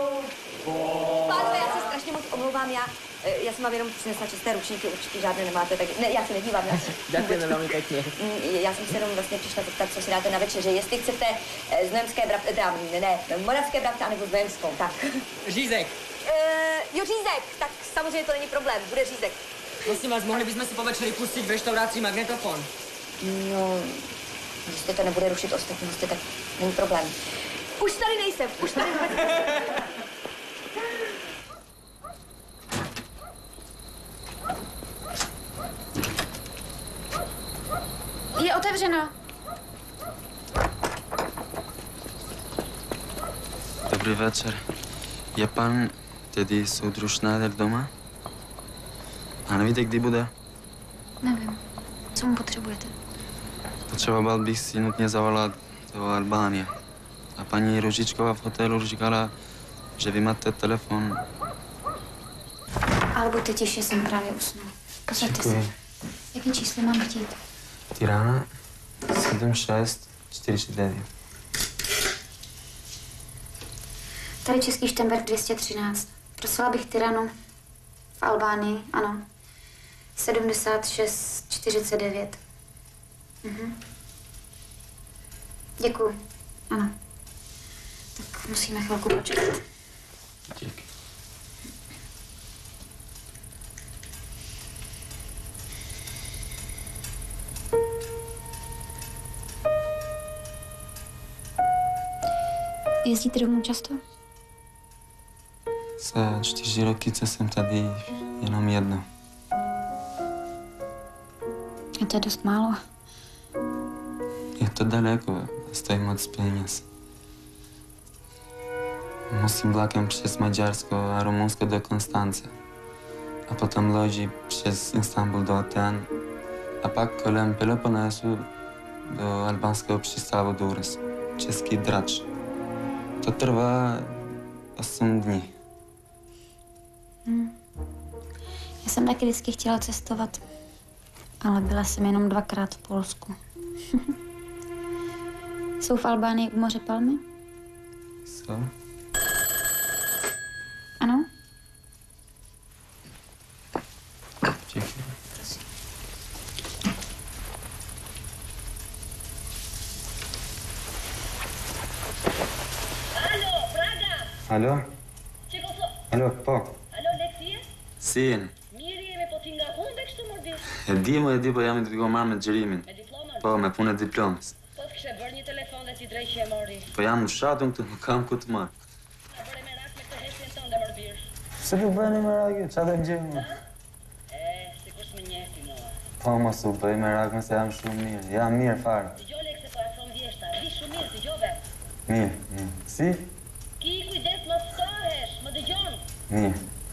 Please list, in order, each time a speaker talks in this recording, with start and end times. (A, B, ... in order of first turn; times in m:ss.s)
0:01.2-0:15.0 A
0:15.5-0:15.9 B
0:16.2-0:19.4 A
0:19.9-0:22.7 B
0:23.2-0:24.1 A
0:24.7-0:27.2 A
0:27.8-0:29.1 A
0:43.9-0:44.6 C
0:45.4-0:47.9 C
0:49.5-0:50.3 C
0:51.2-0:51.6 D
0:52.2-0:52.9 D
0:53.9-0:56.7 C
0:57.4-0:59.3 C
1:00.0-1:01.2 C
1:03.2-1:05.6 D
1:05.2-1:05.7 C
1:06.3-1:07.4 D
1:07.9-1:08.5 C
1:09.1-1:11.1 C
1:14.4-1:17.3 D
1:18.2-1:19.2 D
1:20.2-1:22.4 D
1:23.4-1:23.8 D
1:25.8-1:26.2 D
1:28.2-1:29.6 D
1:30.5-1:30.8 C
1:43.0-1:44.0 D
1:46.0-1:49.0 C
1:52.0-1:52.8 D
1:54.6-1:56.8 C
1:59.3-2:02.5 C
2:03.5-2:06.1 C
2:06.8-2:08.5 C
2:09.1-2:12.2 C
2:13.2-2:14.2 C
2:14.8-2:15.5 C
2:17.3-2:17.5 D
2:18.8-2:20.4 D
2:21.4-2:23.4 D
2:25.8-2:27.2 D
2:28.3-2:28.7 C
2:31.0-2:31.3 D
2:34.7-2:35.1 C
2:35.3-2:35.6 D
2:43.1-2:44.3 E
2:44.5-2:44.9 C
2:45.5-2:46.0 E
2:46.1-2:46.8 C
2:46.9-2:47.6 E
2:48.0-2:48.5 C
2:48.7-2:50.6 E
2:50.8-2:52.9 C
2:52.9-2:53.5 E
2:53.4-2:54.5 C
2:54.8-2:56.9 E
2:56.9-2:58.7 C
2:59.4-3:01.3 E
3:01.6-3:03.5 C
3:04.3-3:06.0 E
3:06.2-3:09.2 C
3:09.2-3:11.6 E
3:12.1-3:13.3 C
3:13.8-3:16.0 E
3:16.3-3:16.6 C